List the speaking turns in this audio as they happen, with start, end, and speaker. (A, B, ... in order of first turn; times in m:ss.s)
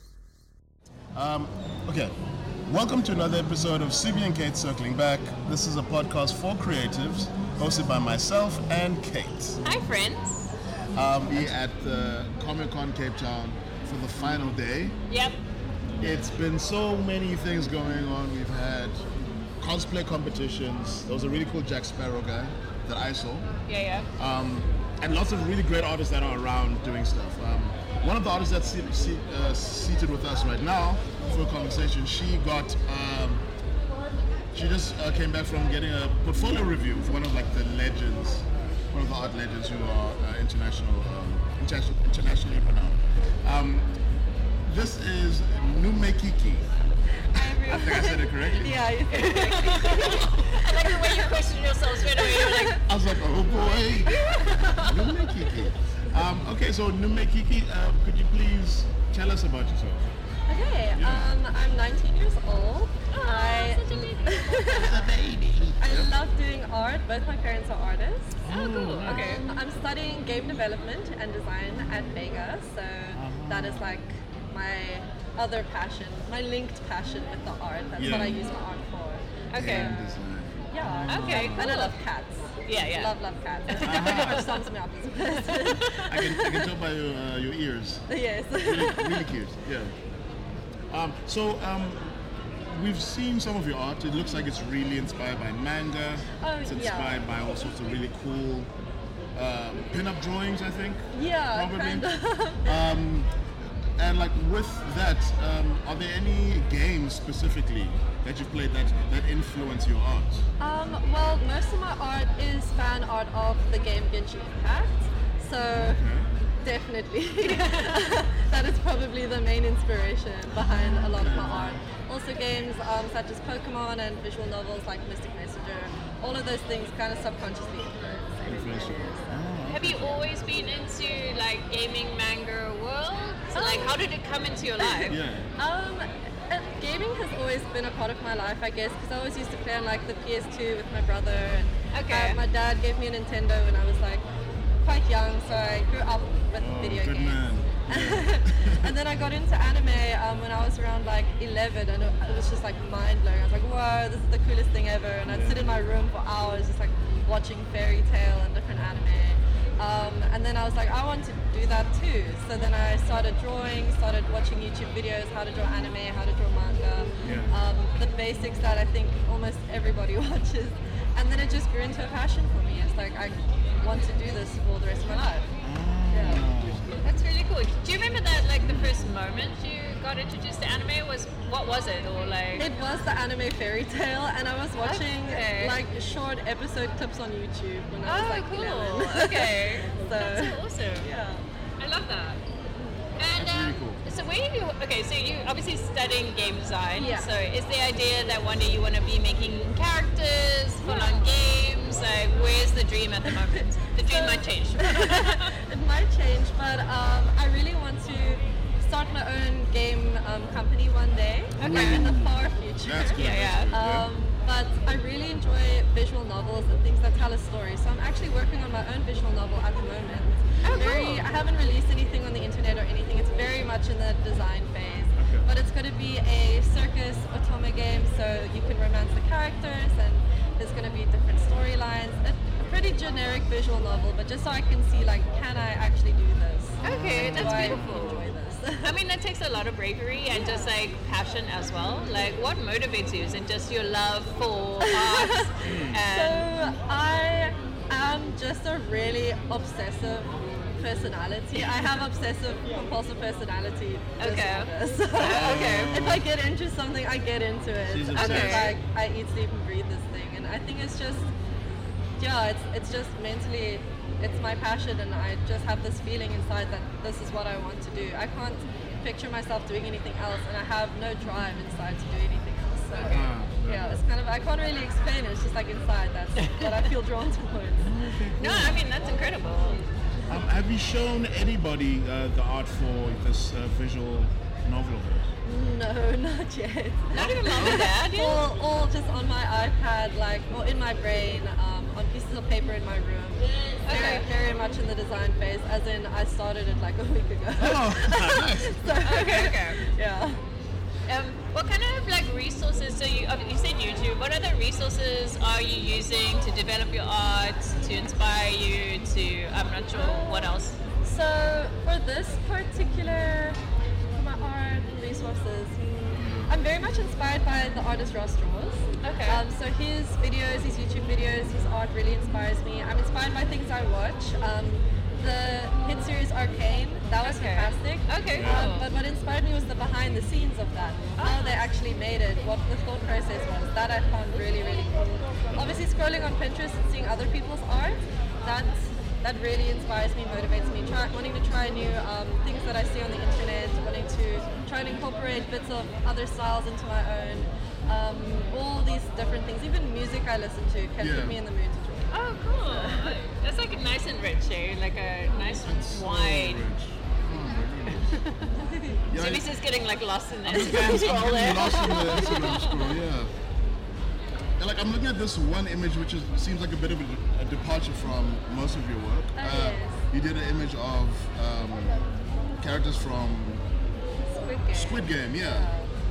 0:01.1-0:09.6 A
0:09.6-0:10.6 B
0:10.9-0:15.0 A
0:15.1-0:15.4 B
0:16.0-0:19.0 A
0:19.6-0:23.5 A
0:23.7-0:24.1 B
0:24.2-0:33.4 A
0:34.5-0:43.9 A
0:44.6-0:46.7 A
0:47.3-0:51.3 C
0:47.4-0:48.9 A
0:49.1-0:52.8 B
0:52.1-0:52.8 C
0:52.8-1:00.1 A
0:53.5-0:55.0 B
0:54.0-0:55.3 C
1:00.5-1:05.1 C
1:00.9-1:01.3 A
1:03.1-1:05.1 B
1:04.7-1:06.2 A
1:05.8-1:08.4 C
1:08.4-1:09.4 A
1:08.5-1:09.4 B
1:09.0-1:26.4 C
1:13.1-1:14.0 A
1:18.0-1:18.4 A
1:18.0-1:18.3 B
1:19.5-1:19.9 B
1:19.6-1:21.7 A
1:21.1-1:22.0 B
1:22.6-1:23.1 B
1:23.7-1:24.7 B
1:23.8-1:24.5 A
1:25.2-1:26.5 B
1:26.0-1:28.0 A
1:28.1-1:29.3 C
1:28.6-1:29.9 A
1:30.9-1:32.0 A
1:32.7-1:38.7 A
1:36.4-1:37.2 C
1:39.3-1:41.0 A
1:41.1-1:42.8 C
1:41.5-1:42.1 A
1:42.6-1:43.3 A
1:44.0-1:50.4 A
1:50.6-1:56.0 C
1:55.7-1:56.3 A
1:56.6-2:09.4 C
1:57.4-1:58.1 B
2:00.6-2:01.9 A
2:08.5-2:10.3 A
2:09.7-2:15.2 B
2:13.5-2:14.0 C
2:14.8-2:24.2 C
2:15.1-2:15.5 A
2:21.9-2:22.4 B
2:24.8-2:55.5 C
2:26.6-2:28.9 A
2:35.2-2:35.9 A
2:47.2-2:47.6 A
2:55.6-2:56.9 A
2:56.1-2:56.4 C
2:57.0-3:02.7 B
2:58.6-2:59.0 A
3:02.6-3:11.4 C
3:04.8-3:05.8 B
3:08.0-3:11.1 B
3:11.8-3:12.4 B
3:12.8-3:13.0 C
3:13.2-3:25.5 B
3:13.3-3:14.0 A
3:16.9-3:17.3 C
3:20.8-3:21.5 C
3:24.0-3:58.9 C
3:31.6-3:34.1 A
3:31.6-3:32.1 B
3:33.1-3:33.8 B
3:40.6-3:41.3 B
3:45.2-3:45.5 A
3:56.8-3:58.3 A
3:56.8-4:06.5 B
4:00.3-4:00.7 C
4:04.8-4:05.5 C
4:05.6-4:06.0 A
4:06.1-4:21.3 C
4:11.5-4:11.9 B
4:14.2-4:16.0 B
4:15.2-4:16.3 A
4:17.8-4:18.7 A
4:18.1-4:18.8 B
4:22.2-4:37.9 C
4:32.9-4:34.0 A
4:33.0-4:33.3 B
4:36.4-4:36.9 B
4:37.8-4:38.9 A
4:38.4-4:39.8 B
4:40.3-4:45.3 A
4:45.4-5:00.4 C
4:47.1-4:48.4 B
4:47.2-4:47.9 A
4:53.8-4:54.2 B
4:57.6-4:58.9 A
4:59.0-4:59.8 B
5:01.1-5:10.8 B
5:09.9-5:13.6 C
5:14.1-5:53.2 C
5:16.1-5:16.5 A
5:19.0-5:19.4 B
5:27.2-5:28.9 B
5:28.3-5:28.8 A
5:31.2-5:31.6 B
5:35.5-5:35.9 A
5:51.0-5:51.4 A
5:52.1-5:56.6 B
5:55.5-5:58.2 A
5:58.6-5:59.0 C
5:59.1-5:59.5 A
5:59.1-6:02.9 B
6:00.4-6:03.3 A
6:01.9-6:02.4 C
6:04.6-6:12.0 A
6:09.4-6:10.0 C
6:12.6-6:13.6 A
6:14.3-6:15.9 C
6:14.7-6:15.7 A